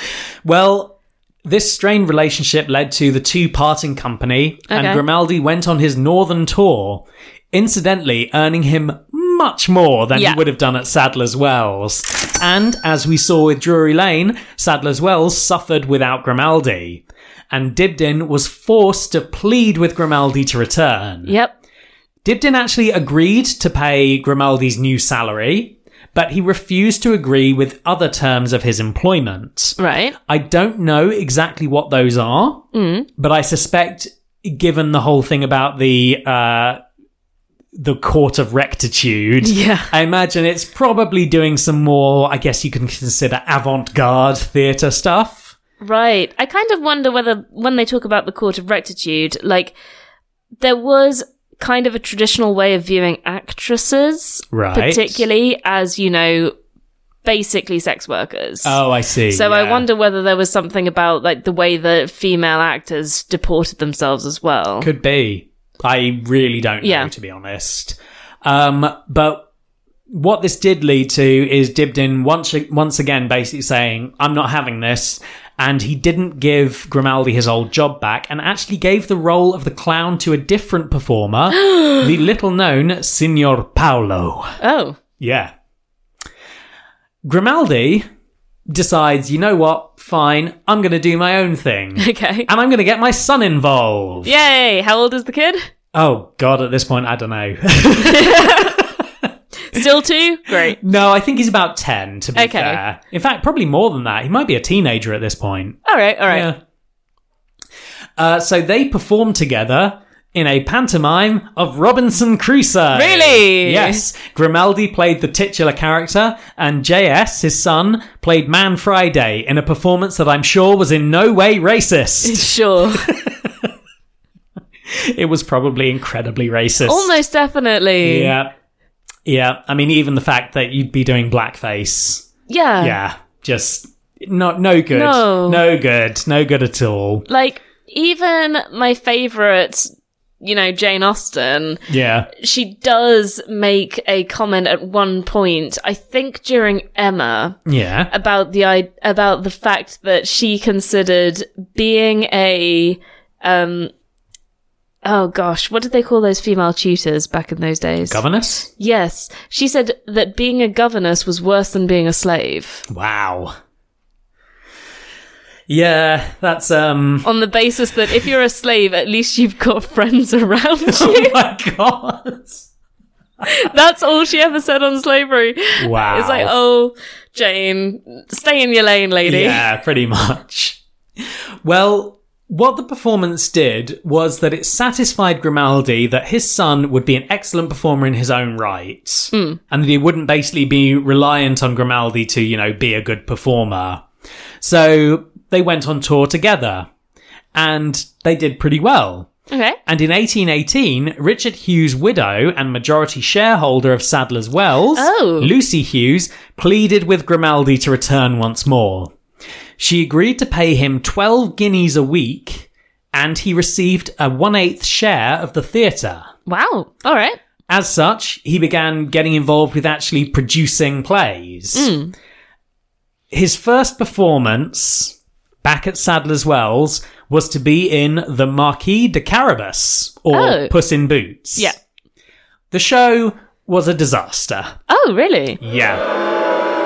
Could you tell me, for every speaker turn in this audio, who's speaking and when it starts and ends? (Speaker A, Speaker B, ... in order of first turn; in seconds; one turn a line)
Speaker A: 0.4-21.3
Speaker B: 4.7-5.0
Speaker B: 21.2-21.5
Speaker A: 22.2-32.6
Speaker B: 29.8-30.1
Speaker B: 32.7-33.1
Speaker A: 33.2-36.8
Speaker A: 37.7-45.5
Speaker B: 39.4-39.9
Speaker B: 45.8-49.7
Speaker B: 50.6-56.5
Speaker A: 54.5-55.2
Speaker B: 57.2-58.8
Speaker A: 58.6-59.8
Speaker B: 59.3-64.9
Speaker A: 64.8-69.5
Speaker B: 66.8-67.1
Speaker A: 70.1-84.6
Speaker B: 81.5-82.1
Speaker B: 84.6-85.0
Speaker A: 85.2-85.5
Speaker A: 87.2-88.0
Speaker A: 88.7-94.3
Speaker B: 92.0-92.5
Speaker B: 94.2-95.6
Speaker A: 95.9-99.8
Speaker B: 98.0-98.8
Speaker B: 99.7-100.8
Speaker A: 100.5-106.6
Speaker B: 102.3-102.8
Speaker B: 105.8-106.5
Speaker A: 108.2-123.7
Speaker B: 112.9-114.0
Speaker B: 122.2-123.1
Speaker A: 124.9-127.1
Speaker B: 126.8-128.3
Speaker A: 128.0-128.5
Speaker A: 129.2-132.3
Speaker B: 132.5-132.9
Speaker A: 132.8-137.2
Speaker B: 134.9-135.6
Speaker B: 137.3-139.9
Speaker B: 140.4-147.6
Speaker A: 141.9-142.3
Speaker A: 147.7-148.1
Speaker B: 148.1-153.9
Speaker B: 155.0-158.2
Speaker A: 158.1-158.7
Speaker B: 158.8-162.8
Speaker A: 162.9-163.5
Speaker A: 165.7-167.3
Speaker B: 167.2-171.3
Speaker A: 170.9-172.7
Speaker B: 173.4-179.7
Speaker A: 175.8-176.5
Speaker A: 179.2-180.8
Speaker A: 181.6-194.0
Speaker B: 189.3-189.6
Speaker A: 194.6-196.9
Speaker A: 197.5-199.3
Speaker B: 199.5-199.8
Speaker A: 199.8-209.1
Speaker B: 204.9-205.5
Speaker A: 209.8-216.3
Speaker B: 216.5-217.4
Speaker A: 217.7-221.9
Speaker B: 221.7-222.1
Speaker A: 223.3-231.7
Speaker B: 230.3-230.7
Speaker A: 232.7-234.7
Speaker B: 234.9-235.6
Speaker A: 235.6-236.0